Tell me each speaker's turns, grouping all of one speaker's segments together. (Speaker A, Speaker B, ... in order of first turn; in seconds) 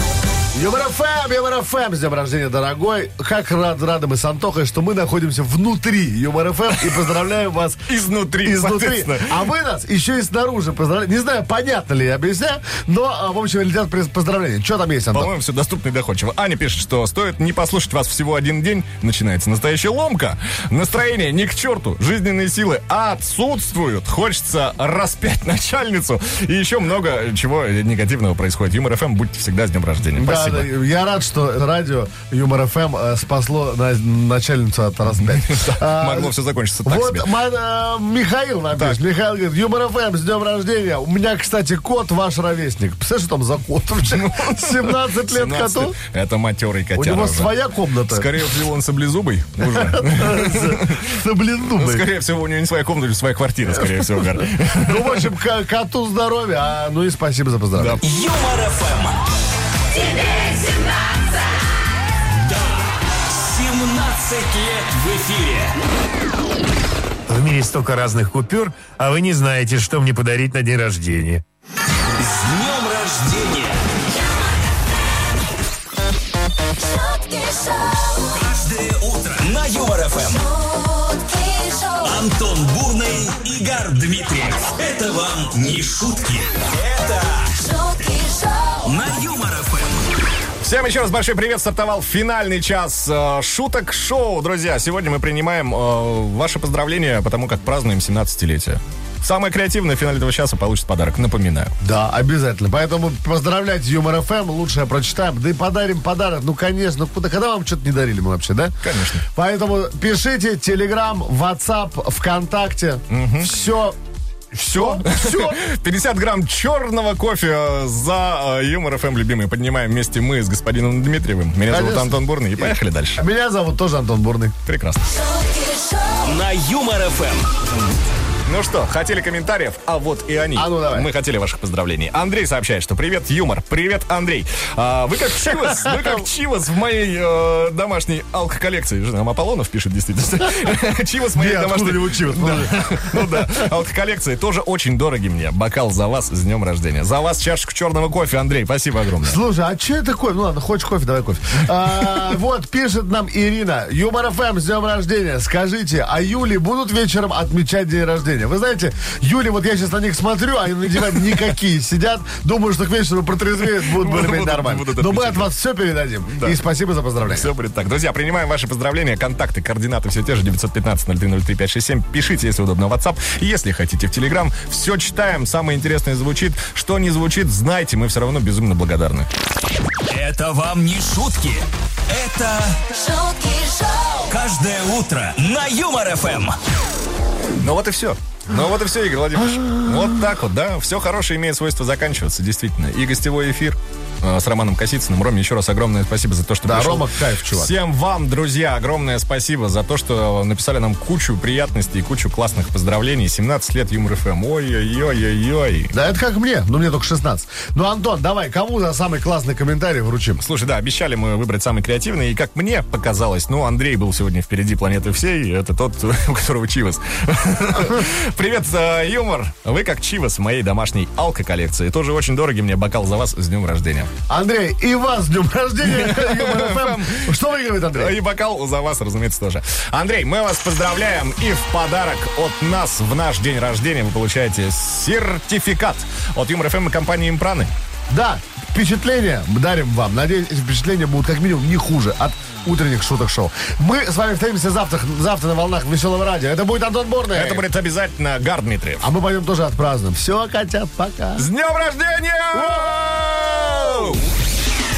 Speaker A: 0.5-15.3, 30.1-36.3, 36.8-46.0, 47.0-48.4, 49.6-52.1, 53.8-58.0, 101.8-108.8, 109.3-114.0, 114.5-115.6, 121.7-124.5, 130.5-131.1, 135.7-136.2, 141.3-143.7, 149.2-167.5, 196.6-197.7, 205.9-210.4, 224.3-228.2, 238.1-247.6, 249.0-251.5, 252.5-252.9
Speaker B: 7.9-9.4, 15.1-30.7, 35.3-37.3, 44.1-47.5, 48.1-51.1, 51.8-55.3, 57.7-58.0, 90.6-101.7, 108.8-109.2, 113.1-113.5, 114.6-123.2, 124.7-125.1, 128.4-149.4, 163.7-165.5, 167.2-179.3, 187.6-205.9, 210.4-224.1, 225.8-227.3, 227.9-237.7, 247.3-249.1, 251.4-254.2
Speaker C: 58.0-59.2, 62.3-65.8, 72.2-73.8, 78.3-80.5, 82.0-87.6, 88.8-90.1, 126.2-127.5, 180.1-182.9, 184.3-186.6
Speaker D: 67.3-71.4
Speaker E: 76.8-78.2, 80.5-82.1, 87.6-88.8, 125.3-126.2, 183.0-184.2